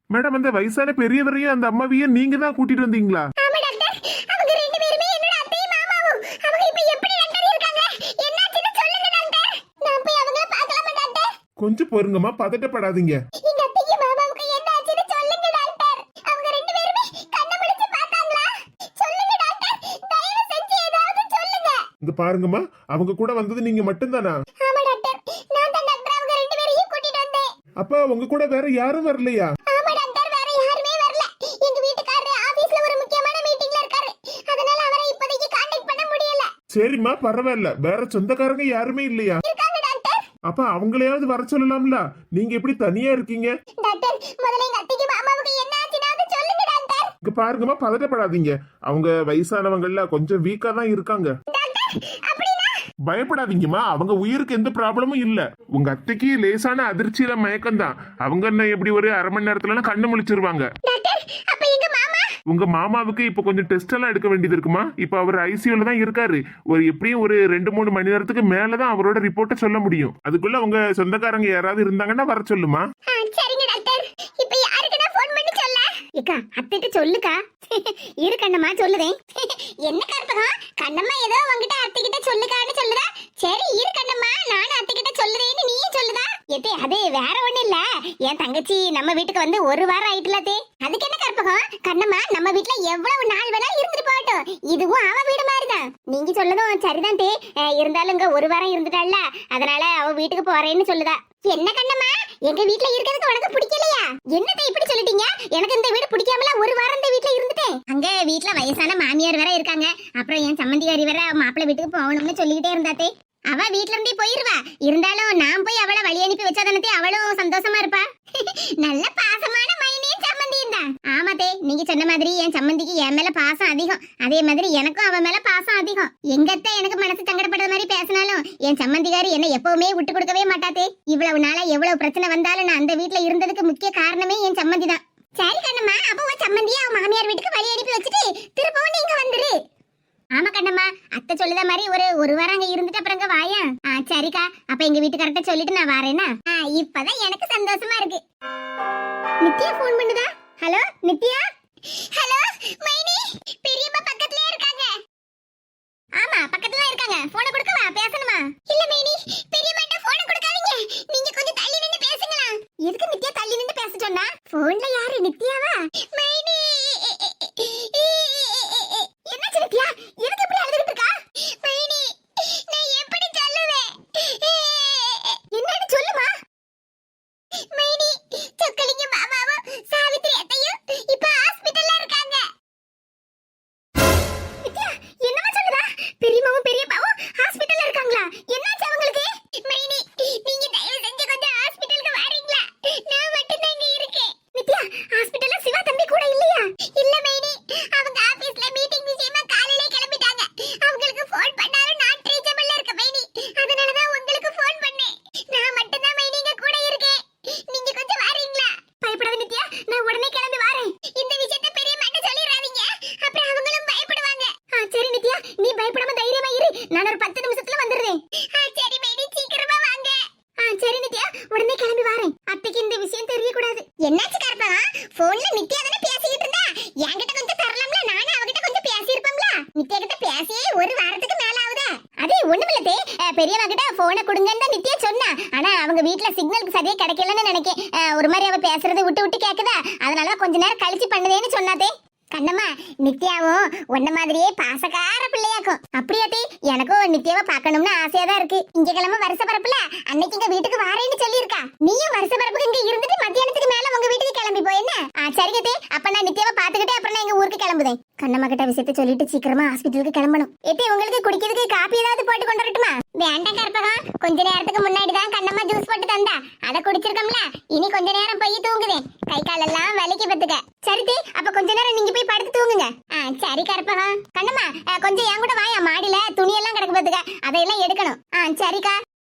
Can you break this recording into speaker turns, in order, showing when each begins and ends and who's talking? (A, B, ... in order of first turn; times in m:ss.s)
0:00.1-0:03.2 A
0:03.4-0:11.3 B
0:11.6-0:13.2 A
0:13.4-0:21.8 B
0:22.0-0:24.4 A
0:24.6-0:27.5 B
0:27.8-0:29.5 A
0:29.7-0:36.5 B
0:36.7-0:39.4 A
0:39.4-0:40.2 B
0:40.5-0:43.5 A
0:43.8-0:47.1 B
0:47.2-0:51.3 A
0:51.5-0:52.8 B
0:53.1-1:00.7 A
1:00.8-1:02.3 B
1:02.5-1:12.8 A
1:13.1-2:19.6 B
2:20.4-2:28.2 B
2:29.4-2:35.0 B
2:36.2-2:56.3 B
2:57.7-3:02.5 B
3:04.6-4:39.0 B